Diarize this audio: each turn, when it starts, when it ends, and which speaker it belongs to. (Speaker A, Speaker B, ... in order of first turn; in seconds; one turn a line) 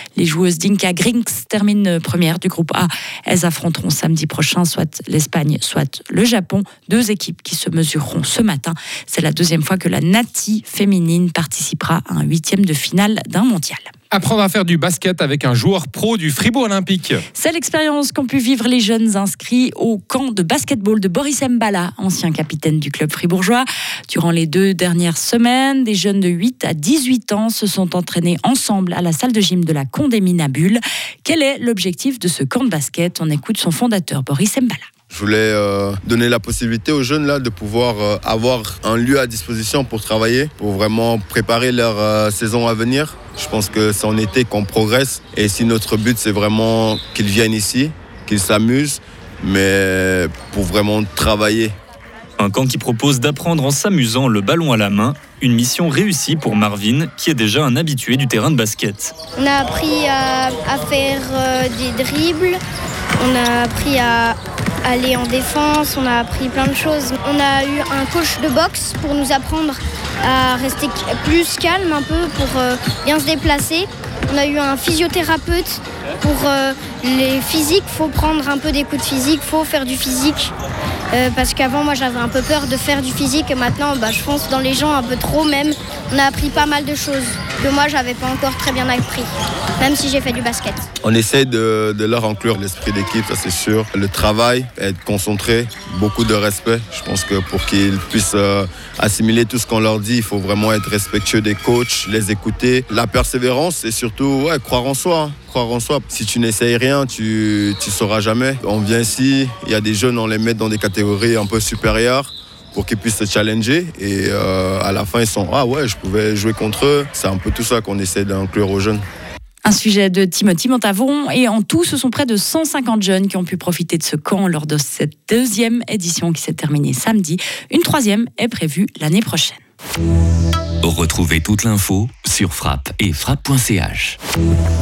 Speaker A: 0.1-13.9
Speaker B: 14.1-17.2
Speaker A: 17.3-34.8
Speaker C: 35.1-51.7
Speaker D: 52.4-59.1
Speaker E: 59.4-62.6
Speaker E: 63.2-80.5
Speaker E: 81.1-89.3
Speaker E: 89.8-90.8
Speaker C: 91.0-119.0
Speaker A: 119.6-129.6
Speaker F: 130.8-134.2